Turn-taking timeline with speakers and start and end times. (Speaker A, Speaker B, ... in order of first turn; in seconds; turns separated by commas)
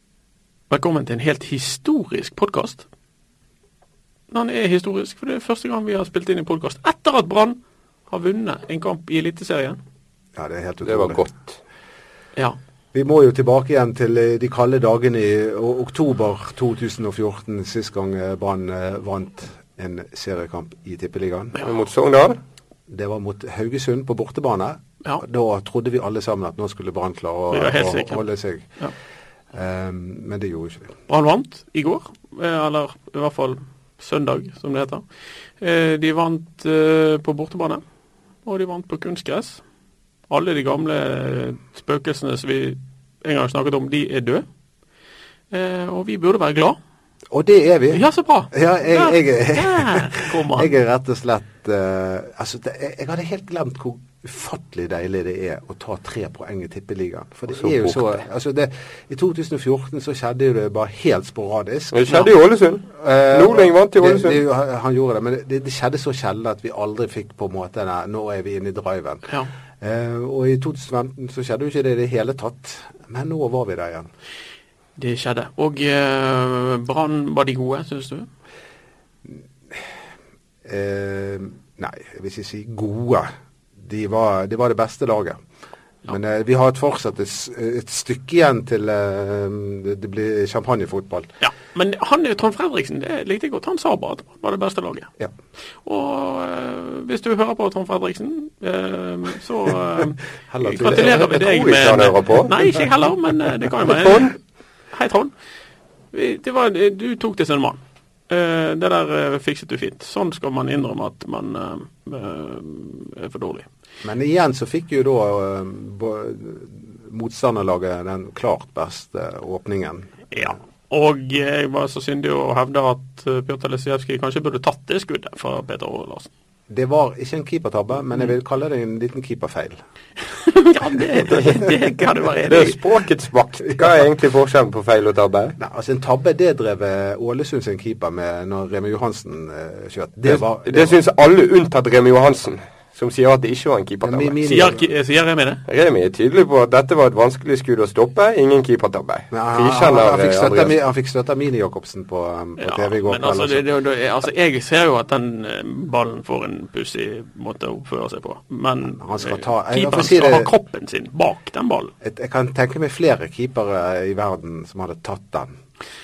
Speaker A: 0.7-2.9, Speaker A: 4.3-9.8, Speaker B: 10.3-11.2, Speaker C: 10.8-11.6, Speaker B: 12.9-21.6, Speaker C: 21.6-22.4, Speaker B: 22.9-28.7, Speaker A: 27.5-28.3, Speaker B: 29.5-30.9, Speaker A: 31.1-35.0, Speaker A: 35.6-37.8, Speaker A: 38.5-39.6, Speaker A: 40.3-44.5, Speaker A: 45.5-46.8, Speaker B: 47.3-62.2, Speaker A: 47.9-50.7, Speaker C: 57.5-58.2, Speaker C: 61.9-64.4, Speaker B: 63.0-69.3, Speaker B: 69.8-74.1, Speaker A: 75.0-78.3, Speaker B: 79.3-79.9, Speaker B: 80.7-85.4, Speaker B: 86.1-91.3, Speaker A: 91.4-95.1, Speaker A: 95.8-104.3, Speaker B: 100.5-101.9, Speaker C: 100.8-102.5, Speaker C: 103.8-104.3, Speaker A: 104.9-105.3, Speaker A: 106.1-113.7, Speaker B: 114.0-120.5, Speaker A: 120.3-126.3, Speaker B: 126.7-129.8, Speaker A: 130.3-132.8, Speaker C: 131.3-131.6, Speaker C: 132.5-135.6, Speaker B: 135.6-140.9, Speaker C: 140.3-144.4, Speaker B: 144.0-144.8, Speaker A: 144.5-145.6, Speaker C: 145.7-150.8, Speaker B: 149.3-153.7, Speaker A: 152.6-161.9, Speaker B: 158.9-160.5, Speaker B: 162.0-165.5